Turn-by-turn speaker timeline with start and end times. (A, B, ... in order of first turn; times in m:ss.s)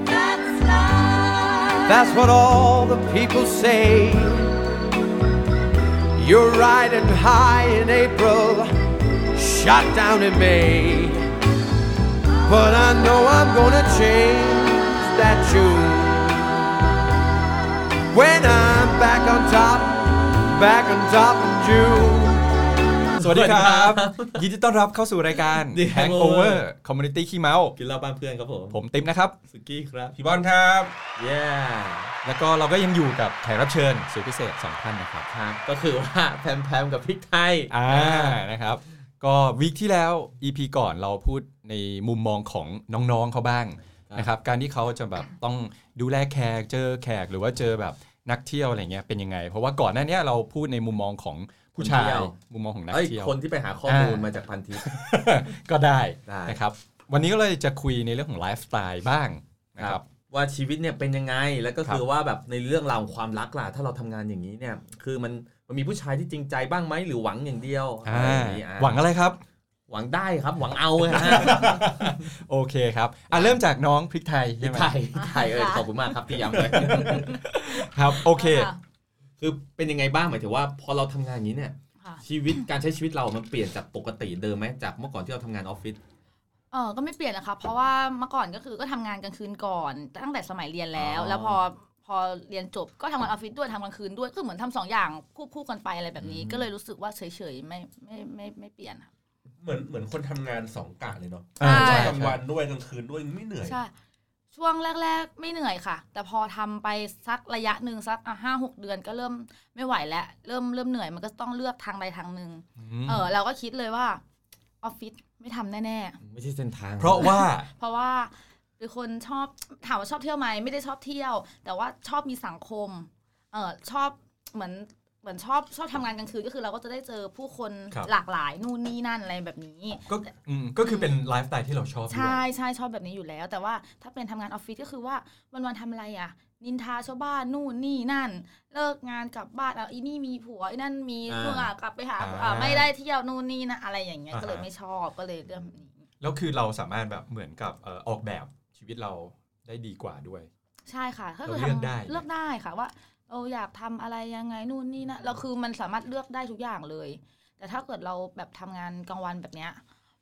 0:00.4-0:04.6 A
0:06.2-0:08.7 A
0:09.3-0:11.2 A
0:12.4-0:16.6 A
0:18.1-0:22.5 A
0:23.1-0:24.4 B
0:23.2-0:27.7 C
0:25.5-0:26.6 B
0:27.8-0:28.8 B
0:28.7-0:29.4 C
0:29.5-0:30.2 B
0:30.1-0:30.9 D
0:31.2-0:32.1 B
0:32.2-0:35.3 C
0:35.3-0:38.4 B
0:37.7-0:53.3 C
0:51.8-0:52.3 B
0:52.9-0:54.9 B
0:53.8-0:54.3 C
0:54.8-1:00.0 C
0:56.3-0:56.6 B
0:59.8-1:09.0 B
1:08.0-1:09.4 C
1:09.9-1:12.2 B
1:11.1-1:14.9 C
1:13.3-1:13.6 B
1:14.6-1:17.2 B
1:15.2-1:15.9 E
1:16.5-1:18.7 C
1:16.9-1:18.8 E
1:19.4-1:26.0 B
1:26.7-1:39.1 E
1:31.0-1:31.6 B
1:36.2-1:36.7 B
1:39.6-1:43.8 D
1:41.6-1:42.2 E
1:41.6-1:42.4 C
1:43.6-1:43.9 E
1:44.5-1:54.2 E
1:52.8-1:53.3 C
1:54.8-1:56.2 E
1:56.2-1:57.4 B
1:57.0-1:57.7 C
1:57.7-2:10.1 E
2:10.1-2:12.4 C
2:12.1-2:26.1 E
2:21.3-2:21.7 B
2:22.2-2:22.9 C
2:24.3-2:24.6 C
2:26.2-2:30.5 C
2:30.9-2:39.8 E
2:31.4-2:32.2 C